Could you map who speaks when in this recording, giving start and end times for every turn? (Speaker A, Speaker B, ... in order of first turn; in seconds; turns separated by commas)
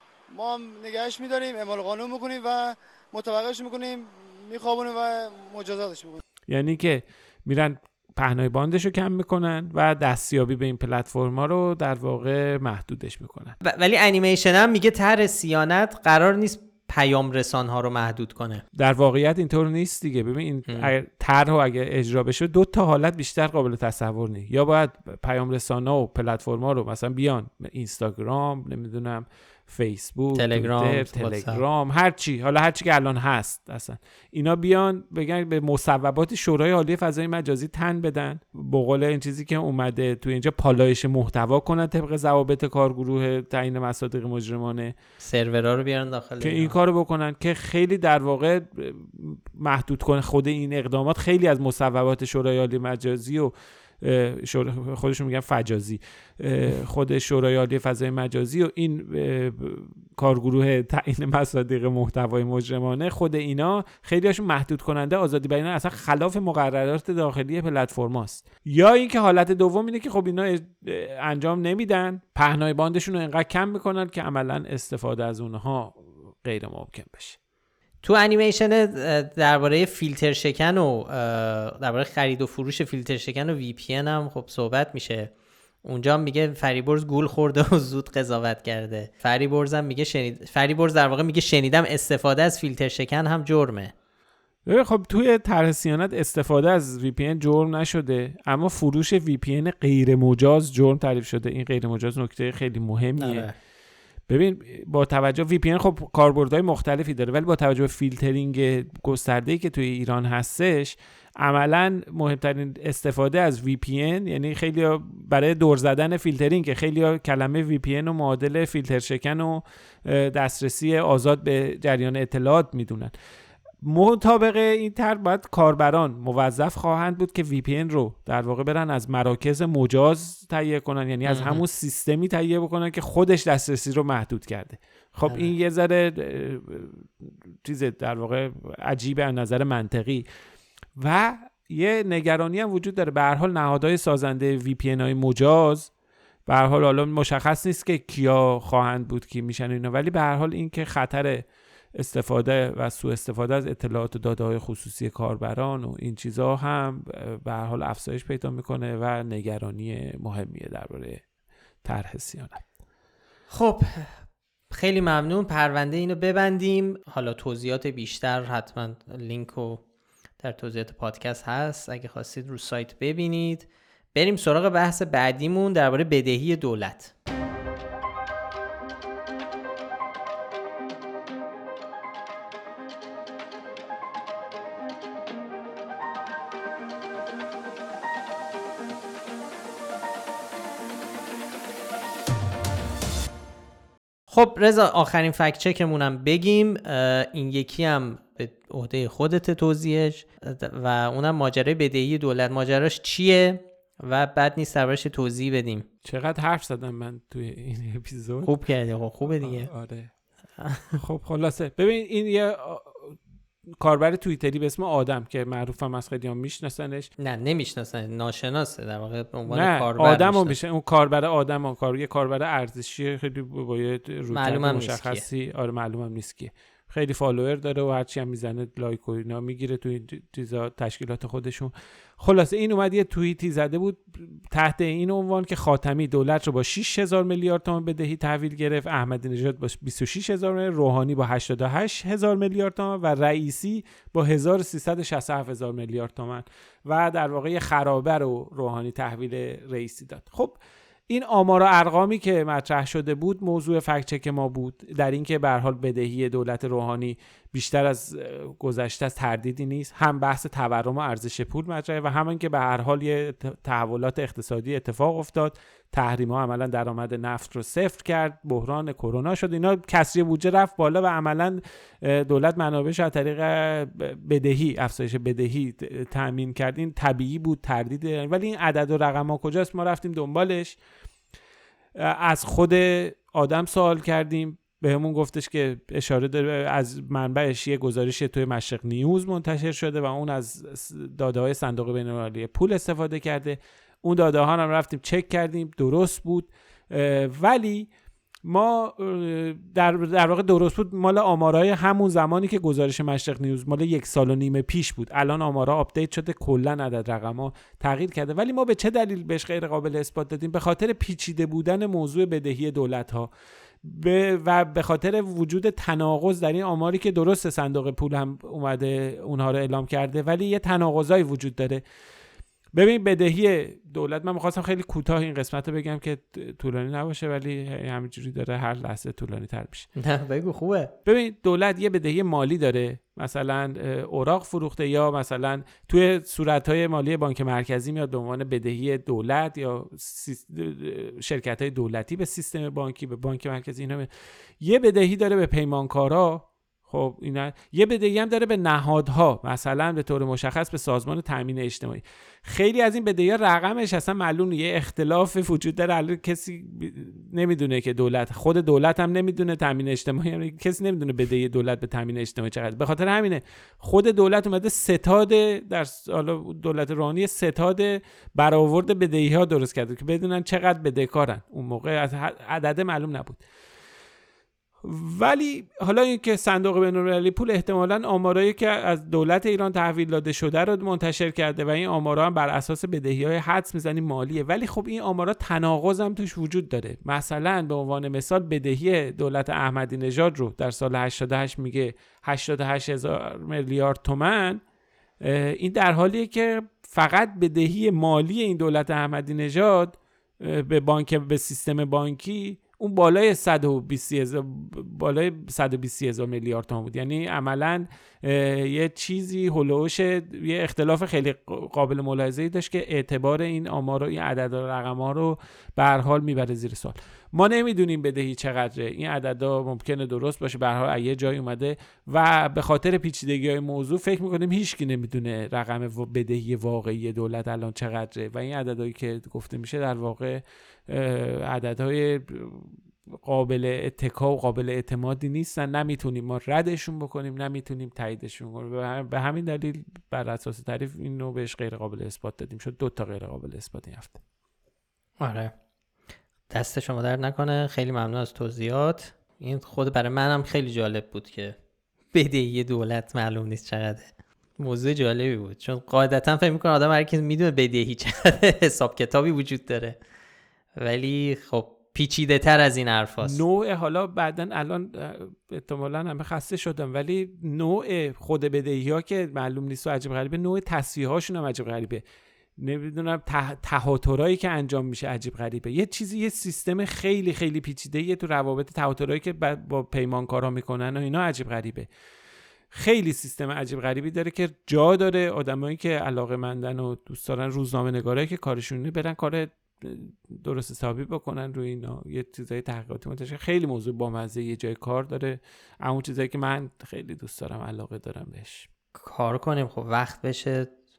Speaker A: 0.3-6.2, Speaker B: 6.5-13.6, Speaker C: 13.6-18.6, Speaker B: 18.7-45.0, Speaker C: 20.7-20.9, Speaker C: 30.3-31.6, Speaker C: 45.2-46.8, Speaker B: 46.4-77.4, Speaker C: 78.0-85.3, Speaker C: 85.8-93.9, Speaker B: 94.7-103.5, Speaker C: 103.2-103.6, Speaker B: 104.3-123.1, Speaker B: 123.8-140.3, Speaker C: 131.3-131.6, Speaker B: 141.0-145.9, Speaker B: 146.5-151.4, Speaker B: 151.9-161.2, Speaker B: 161.8-162.6, Speaker C: 163.5-164.1, Speaker C: 164.7-169.8, Speaker C: 170.4-177.1, Speaker C: 194.3-205.9, Speaker B: 206.1-208.5, Speaker C: 208.4-209.7, Speaker B: 209.2-210.1, Speaker C: 210.6-211.0, Speaker B: 210.9-213.2, Speaker B: 213.8-217.1, Speaker C: 217.2-220.6, Speaker B: 219.5-250.6, Speaker C: 224.3-225.2, Speaker B: 251.1-280.8, Speaker B: 282.0-297.9, Speaker B: 298.4-313.3, Speaker B: 313.8-321.8, Speaker B: 322.8-329.9, Speaker C: 330.0-330.9, Speaker B: 331.1-344.1, Speaker B: 344.6-373.4, Speaker B: 374.8-394.6, Speaker B: 395.2-444.2, Speaker C: 445.2-445.5, Speaker C: 446.5-451.6, Speaker C: 452.1-460.0, Speaker C: 460.8-463.4, Speaker B: 463.2-472.0, Speaker B: 472.6-481.9, Speaker B: 482.7-498.7, Speaker C: 499.0-500.7